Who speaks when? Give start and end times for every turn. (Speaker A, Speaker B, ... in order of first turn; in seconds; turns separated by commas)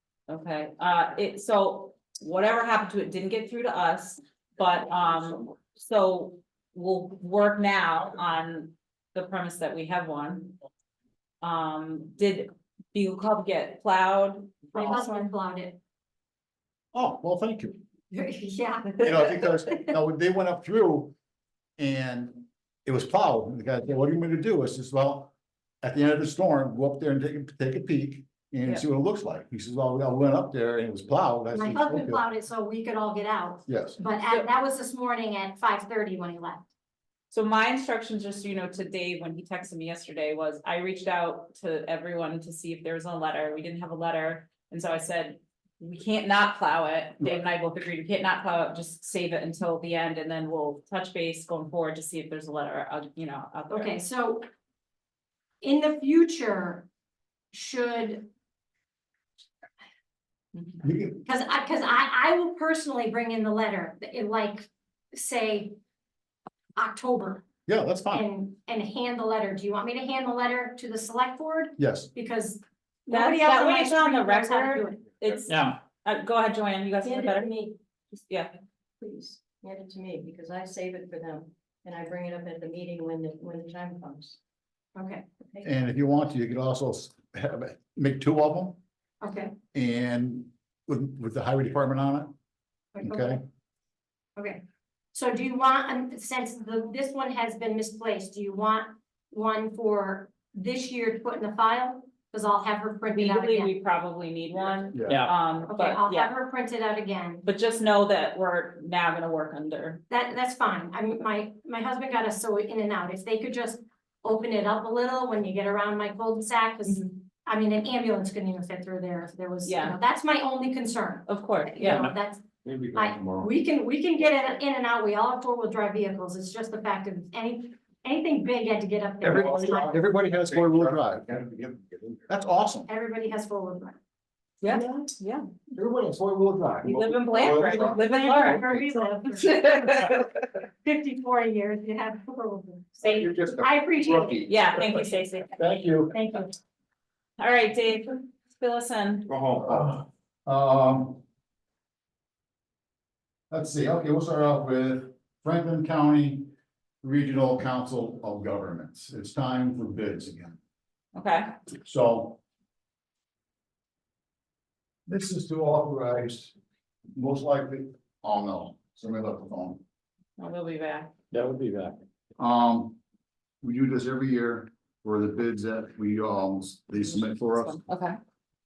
Speaker A: 0.3-10.5, Speaker A: 11.4-15.3, Speaker B: 14.7-15.8, Speaker C: 16.9-17.7, Speaker B: 18.1-19.9, Speaker C: 19.0-21.1, Speaker C: 21.8-32.2, Speaker B: 31.5-36.6, Speaker C: 33.7-34.0, Speaker A: 37.3-54.0, Speaker B: 53.7-54.5, Speaker B: 55.6-56.9, Speaker B: 57.5-58.3, Speaker C: 60.8-61.2, Speaker B: 61.2-65.7, Speaker B: 66.8-67.4, Speaker C: 67.7-68.3, Speaker B: 68.1-75.5, Speaker C: 71.8-72.1, Speaker A: 73.1-78.5, Speaker B: 77.0-77.7, Speaker D: 79.0-84.4, Speaker B: 84.9-85.2, Speaker C: 85.6-88.8, Speaker B: 89.2-89.5, Speaker C: 89.7-92.3, Speaker B: 92.9-93.4, Speaker C: 93.0-93.4, Speaker B: 95.1-103.7, Speaker A: 103.1-106.3, Speaker C: 104.9-105.2, Speaker B: 105.7-107.5, Speaker A: 107.4-110.0, Speaker B: 110.1-130.0, Speaker A: 119.6-120.0, Speaker A: 121.3-122.1, Speaker E: 122.6-123.5, Speaker C: 129.2-131.3, Speaker E: 129.2-132.2, Speaker C: 132.3-132.9, Speaker B: 132.9-134.0, Speaker A: 134.6-135.4, Speaker C: 135.7-136.9, Speaker A: 136.8-138.7, Speaker E: 136.8-139.0, Speaker B: 137.5-139.6, Speaker A: 139.5-140.1, Speaker B: 140.8-144.5, Speaker A: 143.0-143.3, Speaker E: 143.0-144.5, Speaker A: 144.4-145.5, Speaker C: 145.6-146.2, Speaker B: 146.1-146.5, Speaker A: 147.4-149.3, Speaker E: 149.3-150.0, Speaker C: 149.6-151.2, Speaker C: 153.5-156.5, Speaker C: 157.0-160.6, Speaker A: 161.1-161.5, Speaker C: 161.8-162.4, Speaker C: 165.1-166.5, Speaker C: 167.1-169.8, Speaker A: 170.4-171.1, Speaker C: 172.4-173.0, Speaker C: 173.6-177.8, Speaker A: 177.0-178.2